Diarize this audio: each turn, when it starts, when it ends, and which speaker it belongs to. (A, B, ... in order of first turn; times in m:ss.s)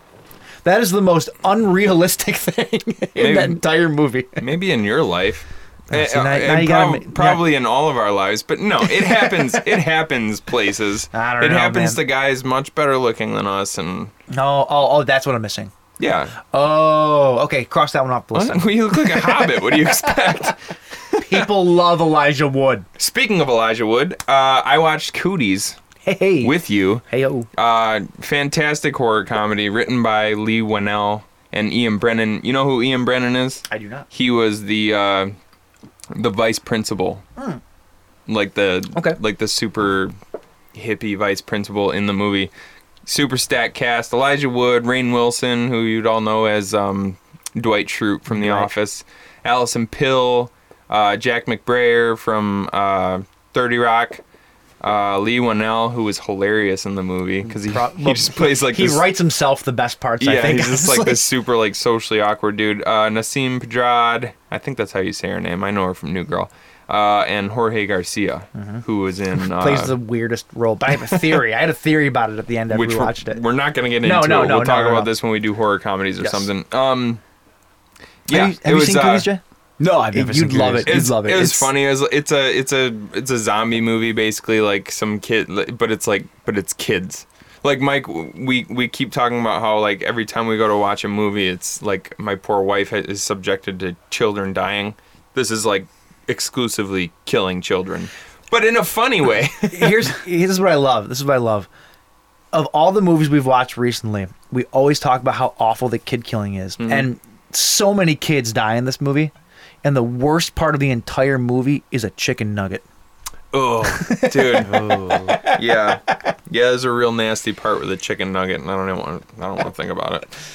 0:00.6-0:04.4 A
0:03.2-0:03.6 B
0:04.4-0:14.1 B
0:05.9-0:07.4 A
0:09.0-0:09.5 A
0:11.1-0:12.0 A
0:14.3-0:15.7 A
0:16.0-0:16.3 B
0:16.4-0:19.7 A
0:18.3-0:20.6 B
0:21.1-0:21.4 B
0:21.2-0:22.8 A
0:23.0-0:25.8 B
0:26.0-0:26.5 A
0:26.4-0:27.0 B
0:27.1-0:27.5 A
0:27.6-0:35.3 B
0:33.7-0:34.1 A
0:36.1-0:37.2 B
0:38.3-0:40.1 B
0:40.7-0:42.5 B
0:43.0-0:54.2 B
0:48.3-0:48.7 A
0:54.8-0:59.0 B
0:57.5-1:01.2 A
1:00.2-1:09.9 B
1:08.5-1:08.8 A
1:09.5-1:13.4 A
1:12.7-1:17.2 B
1:14.0-1:15.1 A
1:16.2-1:16.5 A
1:18.3-1:19.3 B
1:18.3-1:19.4 A
1:19.8-1:21.0 C
1:20.1-1:21.7 A
1:20.9-1:40.2 B
1:39.7-1:41.7 A
1:42.5-1:49.3 A
1:46.8-1:47.1 B
1:49.8-1:52.8 A
1:53.5-2:00.3 B
1:53.8-1:55.6 A
1:54.7-1:55.4 C